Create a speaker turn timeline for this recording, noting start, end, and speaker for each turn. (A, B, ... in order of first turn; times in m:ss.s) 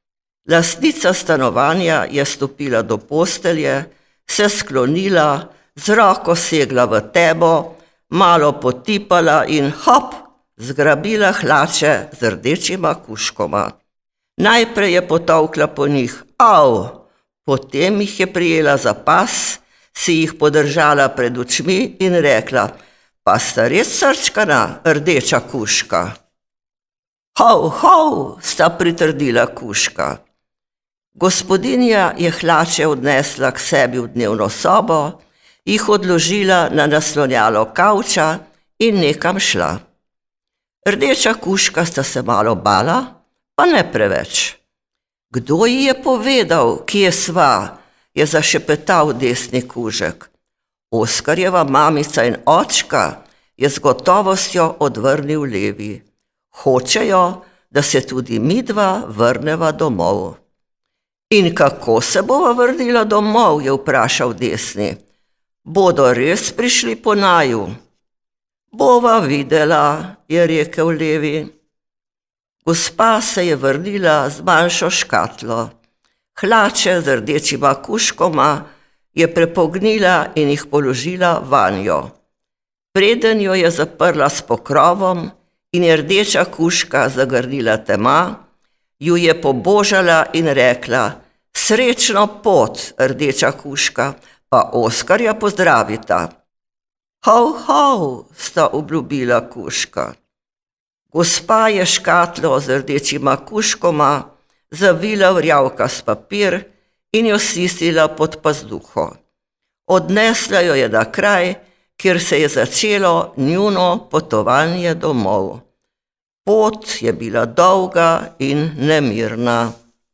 0:00.4-0:13.8 A
0:14.4-0:26.1 A
0:27.3-0:30.2 A
0:31.2-0:39.8 A
0:40.8-0:44.6 A
0:45.3-0:50.3 A
0:50.9-1:00.4 A
1:01.3-1:05.0 A
1:05.6-1:07.7 A
1:08.7-1:11.5 A
1:12.6-1:15.7 A
1:16.3-1:22.1 A
1:22.9-1:28.4 A
1:29.0-1:36.3 A
1:37.2-1:40.2 A
1:41.1-1:49.2 A
1:49.9-1:55.6 A
1:56.4-1:59.7 A